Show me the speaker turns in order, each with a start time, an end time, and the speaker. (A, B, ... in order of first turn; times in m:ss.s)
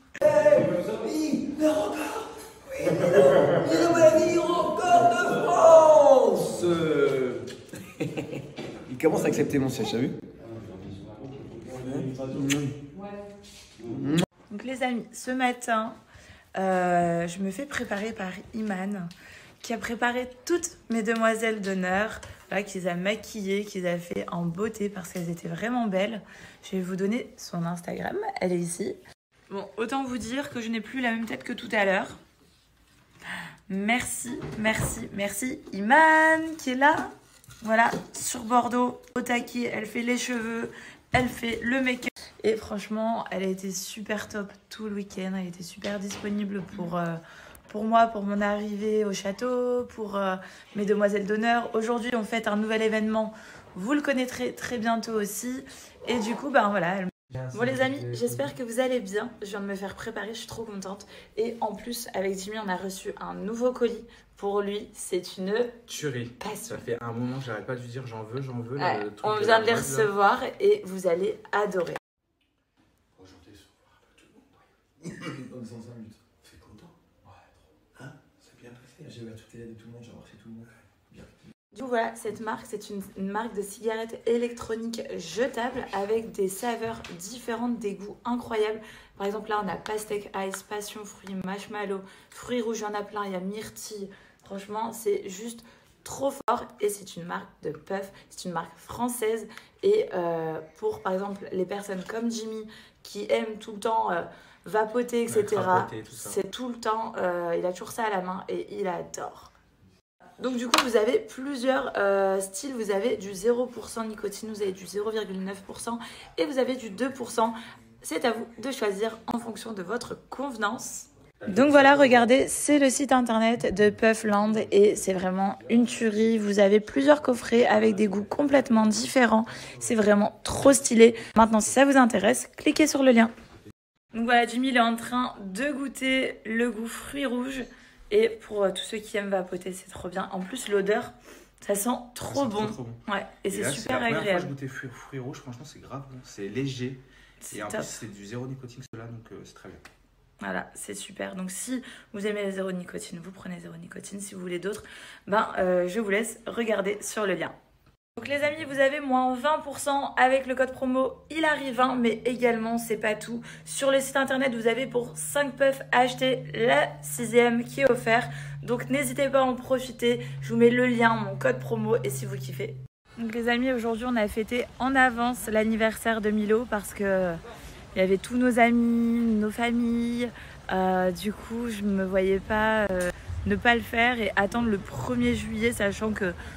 0:00.2-0:07.4 A
0:08.9-0:10.2 A
0:11.9-0:12.5 A
0:14.5-0:16.0 B
0:16.6-0:29.0 B
0:29.5-0:32.2 B
0:33.7-0:37.1 B
0:37.6-1:05.8 B
1:05.9-1:10.1 C
1:06.4-1:06.9 B
1:08.8-1:12.0 B
1:13.2-1:13.6 C
1:15.1-1:16.2 A
1:16.4-1:16.8 C
1:18.1-1:19.0 C
1:18.9-1:21.4 A
1:21.7-1:49.5 B
1:45.3-1:46.4 C
1:50.4-2:13.3 B
2:14.1-2:24.5 B
2:22.3-2:29.8 C
2:27.4-2:27.9 B
2:30.4-2:37.5 B
2:38.2-2:57.4 B
2:57.9-3:06.4 B